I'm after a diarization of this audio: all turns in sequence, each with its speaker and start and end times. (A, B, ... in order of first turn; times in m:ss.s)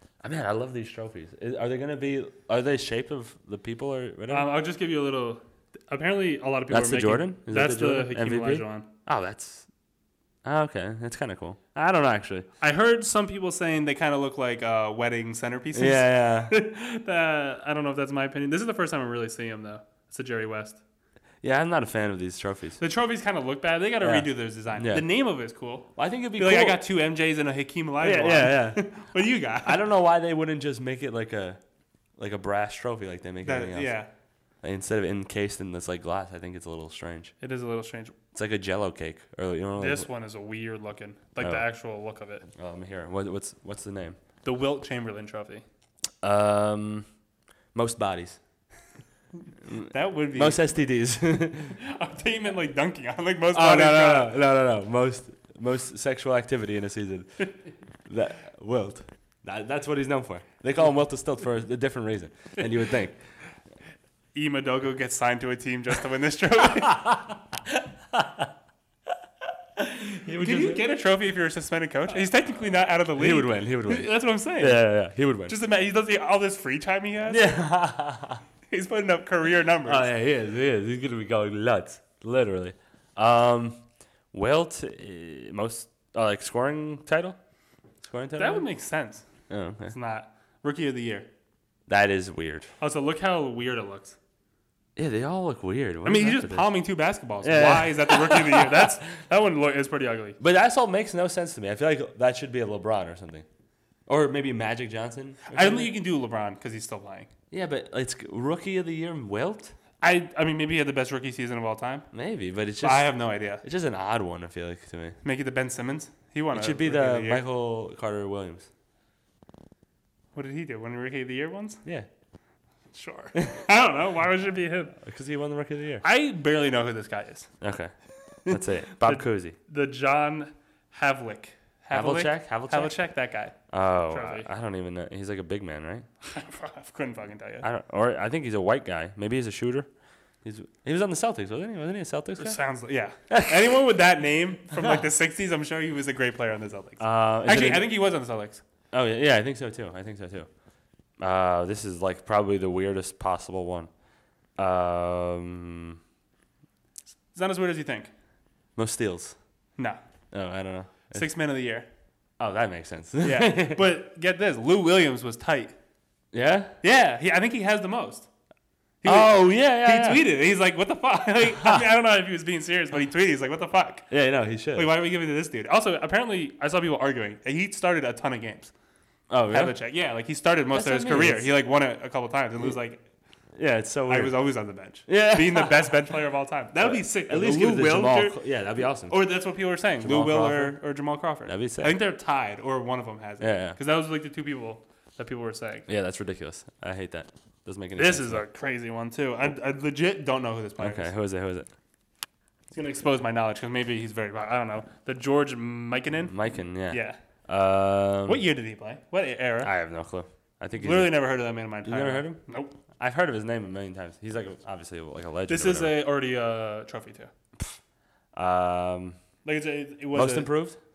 0:00.2-0:04.5 A
0:04.3-0:08.9 B
0:06.7-0:09.7 A
0:10.4-0:12.5 A
0:12.6-0:20.8 B
0:15.7-0:16.5 A
0:21.4-0:22.8 A
0:22.8-0:29.8 B
0:24.0-0:25.0 A
0:26.0-0:26.8 A
0:28.0-0:28.9 A
0:29.6-0:31.6 A
0:32.2-0:34.0 A
0:33.4-0:34.1 B
0:34.6-0:37.3 A
0:37.4-0:38.2 B
0:38.3-0:40.1 A
0:39.8-0:42.4 B
0:41.4-0:41.7 A
0:42.5-0:44.2 A
0:44.4-0:45.6 B
0:46.2-0:47.1 A
0:47.7-0:48.4 A
0:49.6-0:51.8 A
0:49.9-0:50.6 B
0:51.8-0:54.3 B
0:53.5-1:03.2 A
1:04.3-1:07.2 B
1:06.9-1:08.5 A
1:09.8-1:10.9 A
1:10.4-1:14.9 B
1:13.2-1:15.6 A
1:15.5-1:17.5 B
1:17.3-1:18.4 A
1:18.7-1:20.1 B
1:19.8-1:23.8 A
1:24.3-1:27.4 A
1:28.0-1:28.6 A
1:28.4-1:29.3 B
1:29.5-1:29.9 A
1:29.9-1:31.3 B
1:31.9-1:32.7 A
1:32.8-1:34.2 B
1:35.0-1:36.7 A
1:36.0-1:40.4 B
1:37.4-1:39.0 A
1:40.4-1:43.4 A
1:44.1-1:45.9 A
1:45.5-1:47.3 B
1:47.5-1:49.7 A
1:50.0-1:52.1 B
1:52.1-1:55.2 A
1:52.8-1:53.6 B
1:55.2-1:57.4 B
1:56.5-1:58.7 A
2:00.3-2:01.8 B
2:02.9-2:05.0 B
2:03.4-2:03.6 A
2:05.0-2:06.0 A
2:06.0-2:07.5 B
2:07.6-2:07.9 A
2:08.4-2:09.6 A
2:08.4-2:13.6 B
2:11.9-2:13.0 A
2:13.7-2:16.1 A
2:14.1-2:14.5 B
2:16.2-2:17.6 B
2:17.6-2:19.9 A
2:20.4-2:22.6 A
2:22.4-2:28.6 B
2:23.3-2:23.7 A
2:27.0-2:27.9 A
2:28.9-2:30.5 A
2:31.2-2:33.9 A
2:34.6-2:36.0 A
2:37.3-2:38.1 B
2:38.8-2:39.4 A
2:40.3-2:41.2 A
2:41.1-2:41.9 B
2:42.4-2:43.8 A
2:43.2-2:45.7 B
2:46.3-2:46.7 A
2:46.8-2:48.3 B
2:49.0-2:54.1 B
2:49.0-2:50.2 A
2:54.1-2:54.9 A
2:54.7-2:58.7 B
2:59.3-2:59.7 A
2:59.5-3:03.0 B
3:00.7-3:01.5 A
3:03.6-3:04.3 A
3:04.1-3:08.4 B
3:05.0-3:06.0 A
3:06.8-3:09.2 A
3:09.1-3:15.9 B
3:10.0-3:10.8 A
3:11.4-3:12.0 A
3:13.4-3:13.8 A
3:15.9-3:18.4 A
3:18.0-3:21.1 B
3:20.8-3:21.7 A
3:22.7-3:26.3 B
3:26.3-3:28.4 A
3:26.9-3:27.2 B
3:28.2-3:29.7 B
3:29.6-3:31.2 A
3:30.8-3:32.7 B
3:31.8-3:32.4 A
3:33.0-3:35.9 A
3:35.5-3:37.3 B
3:38.3-3:39.2 A
3:39.4-3:40.5 B
3:40.1-3:40.8 A